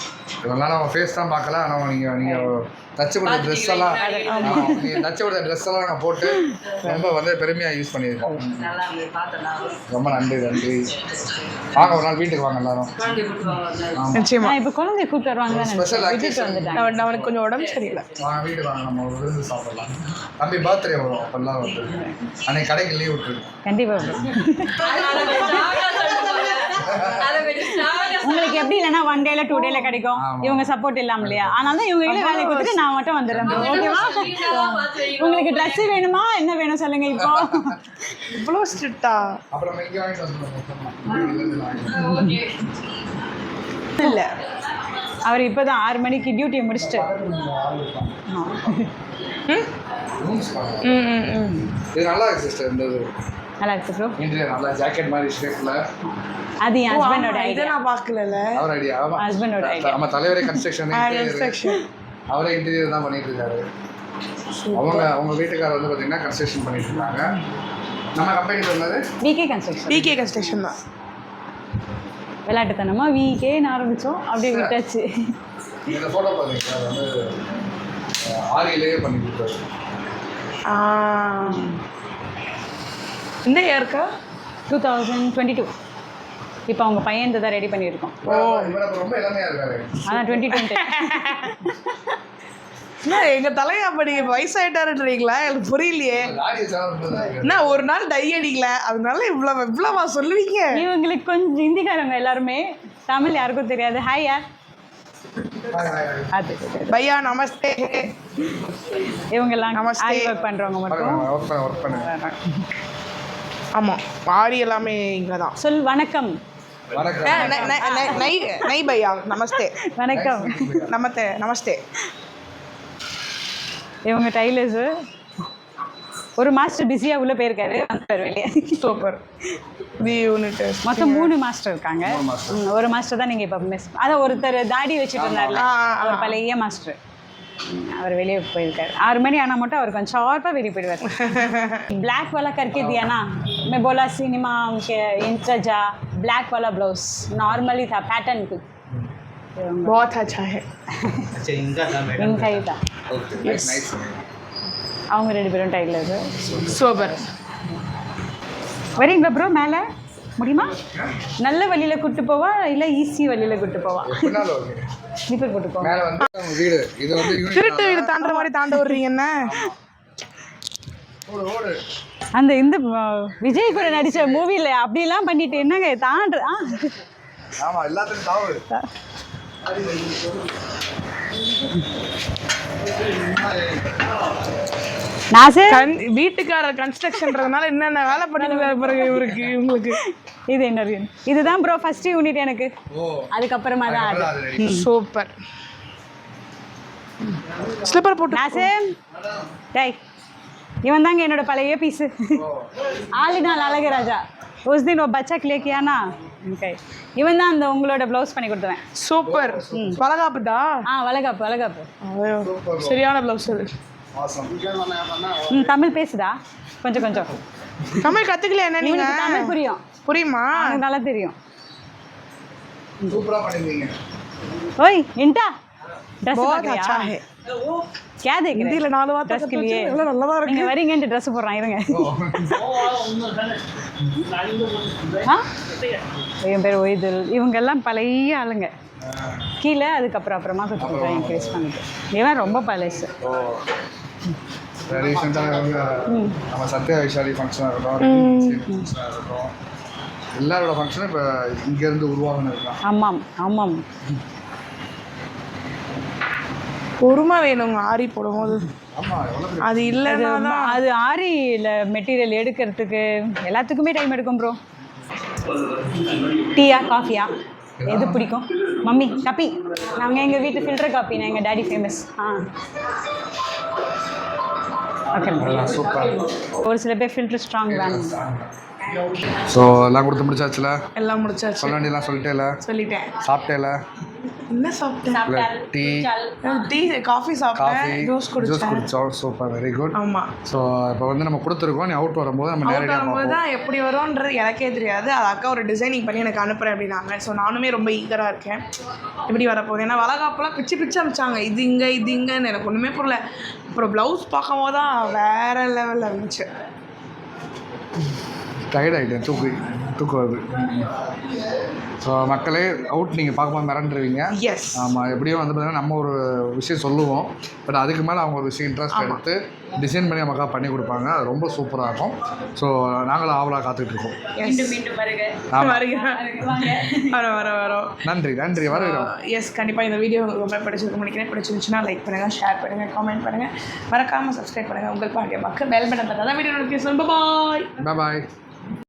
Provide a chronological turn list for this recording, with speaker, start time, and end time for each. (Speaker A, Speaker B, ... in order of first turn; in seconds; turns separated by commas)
Speaker A: 0.4-8.8, Speaker B: 2.2-2.5, Speaker C: 3.2-4.9, Speaker D: 4.1-4.7, Speaker B: 4.1-5.0, Speaker B: 6.3-6.6, Speaker C: 8.6-9.8, Speaker A: 9.9-10.9, Speaker C: 11.0-11.8, Speaker A: 11.7-13.1, Speaker C: 13.0-14.1, Speaker A: 13.9-14.3, Speaker D: 14.1-14.6, Speaker B: 14.4-16.9, Speaker A: 15.5-17.3, Speaker D: 16.8-18.1, Speaker A: 18.1-23.5, Speaker B: 23.6-26.7, Speaker C: 24.8-28.7, Speaker D: 25.1-26.0, Speaker A: 26.8-27.4, Speaker B: 27.4-37.9, Speaker D: 29.5-29.9, Speaker A: 30.2-31.8, Speaker D: 32.1-32.9, Speaker A: 33.3-34.1, Speaker D: 33.5-33.9, Speaker C: 33.5-35.8, Speaker A: 37.3-37.7, Speaker D: 38.2-39.4, Speaker A: 39.5-42.5, Speaker C: 42.1-42.5, Speaker D: 44.0-44.4, Speaker B: 45.2-47.1, Speaker A: 46.8-48.2, Speaker B: 48.3-48.9, Speaker A: 50.1-51.0, Speaker D: 50.8-51.7, Speaker A: 51.8-53.1, Speaker B: 53.6-54.2, Speaker A: 54.2-55.8, Speaker B: 56.1-57.8, Speaker D: 56.9-58.5, Speaker A: 58.5-61.6, Speaker B: 59.2-60.6, Speaker D: 60.9-61.8, Speaker A: 62.3-63.7, Speaker D: 64.6-65.1, Speaker A: 64.8-67.3, Speaker A: 68.1-69.0, Speaker B: 69.2-70.1, Speaker D: 69.9-70.8, Speaker B: 72.5-75.1, Speaker A: 74.4-74.8, Speaker A: 75.9-77.1, Speaker A: 78.2-79.6, Speaker D: 80.7-81.7, Speaker B: 81.4-81.8, Speaker D: 83.5-84.1, Speaker B: 84.7-85.7, Speaker B: 86.7-88.2, Speaker D: 88.2-88.8, Speaker A: 88.2-90.1, Speaker B: 90.1-91.8, Speaker D: 90.1-91.6, Speaker D: 93.0-96.3, Speaker A: 96.1-97.7, Speaker D: 97.4-100.8, Speaker B: 100.7-104.4, Speaker A: 105.6-106.3, Speaker B: 106.3-107.0, Speaker D: 106.9-108.1, Speaker B: 108.9-112.4, Speaker D: 109.7-110.4, Speaker A: 110.8-112.1, Speaker D: 113.8-115.5, Speaker B: 115.6-116.3, Speaker A: 116.9-117.8, Speaker D: 117.2-119.8, Speaker B: 117.4-118.5, Speaker B: 119.8-120.8, Speaker A: 120.1-121.0, Speaker D: 120.9-121.8, Speaker B: 124.1-124.9, Speaker B: 126.4-128.8, Speaker D: 128.8-129.2, Speaker D: 130.0-131.3, Speaker B: 130.8-137.0, Speaker A: 132.0-132.6, Speaker A: 135.2-135.7, Speaker D: 135.6-136.4, Speaker B: 137.7-148.6, Speaker D: 141.1-141.9, Speaker A: 142.7-143.1, Speaker B: 149.6-150.1, Speaker D: 149.9-150.7, Speaker B: 151.0-151.3, Speaker C: 151.4-152.5, Speaker B: 152.2-152.8, Speaker A: 153.1-154.2, Speaker D: 153.4-153.9, Speaker B: 155.1-157.0, Speaker A: 156.4-156.8, Speaker D: 156.6-157.3, Speaker B: 159.0-159.8, Speaker B: 160.4-160.8, Speaker A: 160.7-161.1, Speaker B: 161.4-164.4, Speaker A: 164.0-164.8, Speaker B: 165.3-166.0, Speaker A: 165.8-168.1, Speaker D: 167.3-169.5, Speaker B: 168.1-169.0, Speaker A: 169.4-169.8, Speaker A: 171.3-171.8, Speaker B: 172.3-177.0, Speaker A: 173.5-174.5, Speaker A: 177.6-178.6, Speaker B: 185.3-185.8, Speaker D: 185.7-190.0, Speaker B: 188.3-192.7, Speaker A: 189.1-189.5, Speaker A: 192.9-193.3, Speaker B: 193.3-194.9, Speaker A: 193.9-194.8, Speaker D: 194.6-195.3, Speaker D: 197.7-198.7, Speaker B: 198.3-198.9, Speaker B: 200.8-202.4, Speaker A: 202.3-202.7, Speaker B: 203.0-208.8, Speaker D: 209.0-210.8, Speaker A: 209.2-210.0, Speaker B: 209.7-210.0, Speaker B: 210.9-211.9, Speaker D: 212.0-213.7, Speaker A: 212.4-213.0, Speaker A: 214.2-215.2, Speaker B: 215.4-217.3, Speaker D: 218.0-220.8, Speaker B: 218.8-219.8, Speaker B: 220.6-221.3, Speaker A: 223.1-223.9, Speaker B: 224.8-225.5, Speaker B: 226.2-227.1, Speaker D: 226.3-227.2, Speaker B: 228.2-233.0, Speaker D: 228.5-230.8, Speaker A: 231.9-233.1, Speaker C: 233.0-233.6, Speaker C: 234.3-235.2, Speaker B: 235.2-235.5, Speaker B: 236.4-238.7, Speaker A: 239.0-239.5, Speaker B: 239.6-243.1, Speaker A: 240.8-241.6, Speaker A: 242.4-243.7, Speaker A: 244.9-249.5, Speaker B: 246.1-246.4, Speaker D: 248.0-248.6, Speaker A: 250.3-252.8, Speaker B: 252.8-253.8, Speaker D: 257.0-258.7, Speaker A: 258.9-260.0, Speaker D: 259.6-260.8, Speaker B: 260.1-264.6, Speaker B: 266.5-267.3, Speaker A: 267.8-268.4, Speaker B: 267.9-272.5, Speaker B: 275.1-275.7, Speaker A: 275.4-276.3, Speaker B: 276.5-278.2, Speaker A: 277.7-278.5, Speaker A: 279.3-280.8, Speaker D: 281.0-281.8, Speaker A: 281.6-282.6, Speaker D: 282.6-283.2, Speaker A: 283.2-283.8, Speaker D: 284.5-285.2, Speaker B: 285.1-286.7, Speaker A: 285.3-286.1, Speaker D: 286.4-288.9, Speaker A: 287.6-293.4, Speaker D: 289.9-290.3, Speaker D: 292.6-298.6, Speaker D: 299.3-303.2, Speaker D: 303.7-306.5, Speaker A: 308.7-310.9, Speaker A: 312.0-324.2, Speaker D: 314.3-314.9, Speaker D: 318.9-319.2, Speaker D: 324.4-324.8, Speaker B: 324.4-327.4, Speaker A: 325.5-325.9, Speaker D: 325.6-328.0, Speaker A: 328.0-329.1, Speaker D: 328.7-337.8, Speaker A: 337.8-338.3